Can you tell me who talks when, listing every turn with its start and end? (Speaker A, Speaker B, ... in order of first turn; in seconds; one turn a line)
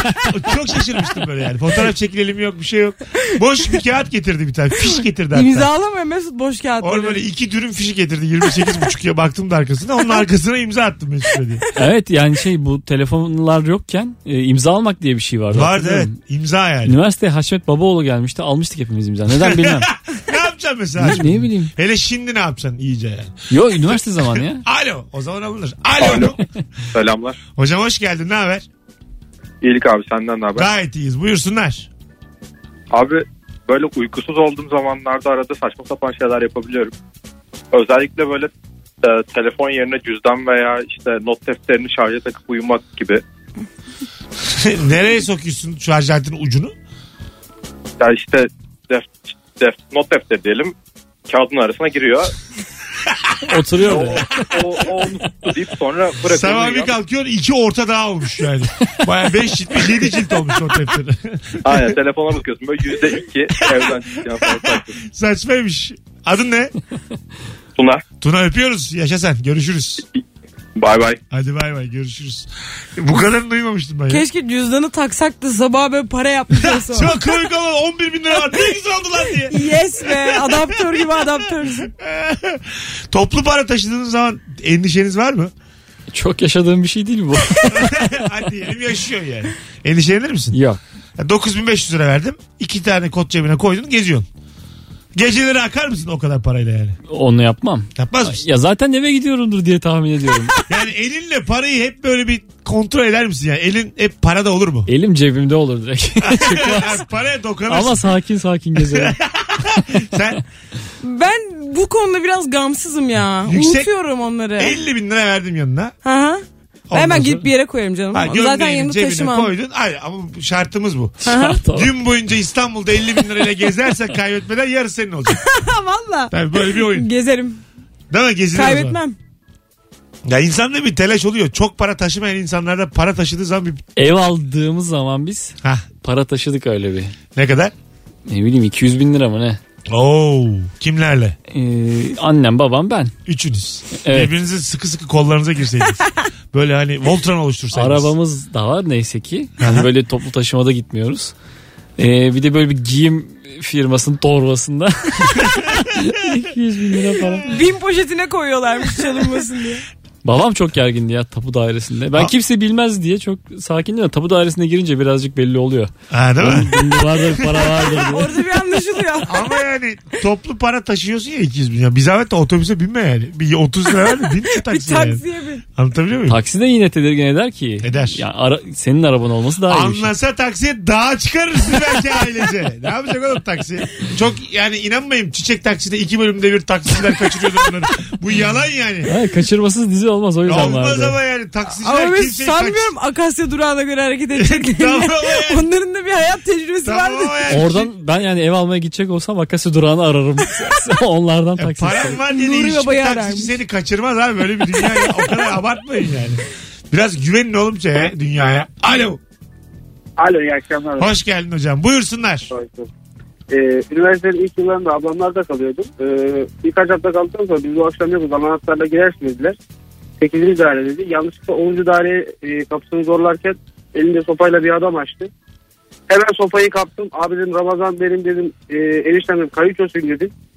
Speaker A: 0.2-5.7
Speaker B: 5.3-7.2
Speaker A: 6.8-11.6
Speaker C: 11.7-16.1
Speaker A: 15.5-17.0
Speaker C: 16.8-19.9
Speaker A: 19.3-24.0
Speaker C: 21.0-21.7
Speaker C: 23.5-24.6
Speaker A: 24.6-26.4
Speaker D: 26.0-26.3
Speaker D: 26.9-27.4
Speaker A: 27.6-28.6
Speaker D: 29.6-30.7
Speaker A: 30.6-31.9
Speaker D: 32.9-36.9
Speaker D: 37.7-38.5
Speaker D: 39.0-43.2
Speaker A: 44.4-46.7
Speaker D: 48.0-50.7
Speaker D: 51.3-52.3
Speaker C: 53.5-54.4
Speaker D: 53.8-56.9
Speaker A: 56.2-61.9
Speaker D: 61.6-65.0
Speaker A: 63.6-66.7
Speaker D: 67.8-68.0
Speaker A: 68.2-70.0
Speaker D: 70.8-71.2
Speaker A: 71.3-74.2
Speaker B: 74.1-77.1
Speaker A: 76.6-85.5
Speaker B: 79.5-81.9
Speaker C: 86.1-88.2
Speaker A: 87.7-90.6
Speaker C: 90.5-90.8
Speaker A: 91.2-94.2
Speaker A: 95.1-97.0
Speaker C: 97.1-100.6
Speaker A: 98.0-98.4
Speaker A: 100.7-104.9
Speaker C: 104.9-107.0
Speaker A: 106.2-108.0
Speaker C: 107.7-109.1
Speaker A: 108.8-110.4
Speaker B: 111.0-114.7
Speaker A: 113.5-113.9
Speaker A: 114.6-115.9
Speaker B: 116.0-119.5
Speaker A: 116.9-117.5
Speaker A: 118.1-125.4
Speaker B: 121.2-121.6
Speaker C: 121.2-121.9
Speaker B: 125.4-127.6
Speaker A: 126.3-127.1
Speaker A: 128.1-129.0
Speaker B: 128.5-129.2
Speaker A: 130.2-133.8
Speaker C: 134.0-137.1
Speaker A: 137.3-137.7
Speaker C: 138.3-139.6
Speaker A: 139.9-141.3
Speaker C: 141.5-143.1
Speaker A: 143.3-146.0
Speaker C: 144.0-144.3
Speaker A: 146.5-148.1
Speaker C: 147.7-151.3
Speaker A: 149.6-149.8
Speaker C: 152.0-157.5
Speaker B: 157.4-159.8
Speaker C: 160.2-168.3
Speaker A: 166.1-167.9
Speaker B: 168.1-169.5
Speaker A: 169.2-175.2
Speaker B: 174.6-175.6
Speaker A: 175.7-176.4
Speaker C: 176.3-180.1
Speaker A: 177.8-178.2
Speaker A: 179.7-189.1
Speaker C: 189.1-191.2
Speaker A: 190.4-192.9
Speaker B: 191.7-197.4
Speaker A: 194.3-195.7
Speaker A: 196.8-197.9
Speaker C: 197.5-202.2
Speaker A: 201.6-209.2
Speaker B: 202.3-203.6
Speaker E: 210.2-211.1
Speaker A: 211.0-212.5
Speaker E: 212.5-212.9
Speaker E: 213.5-219.6
Speaker E: 220.2-225.3
Speaker E: 226.1-230.3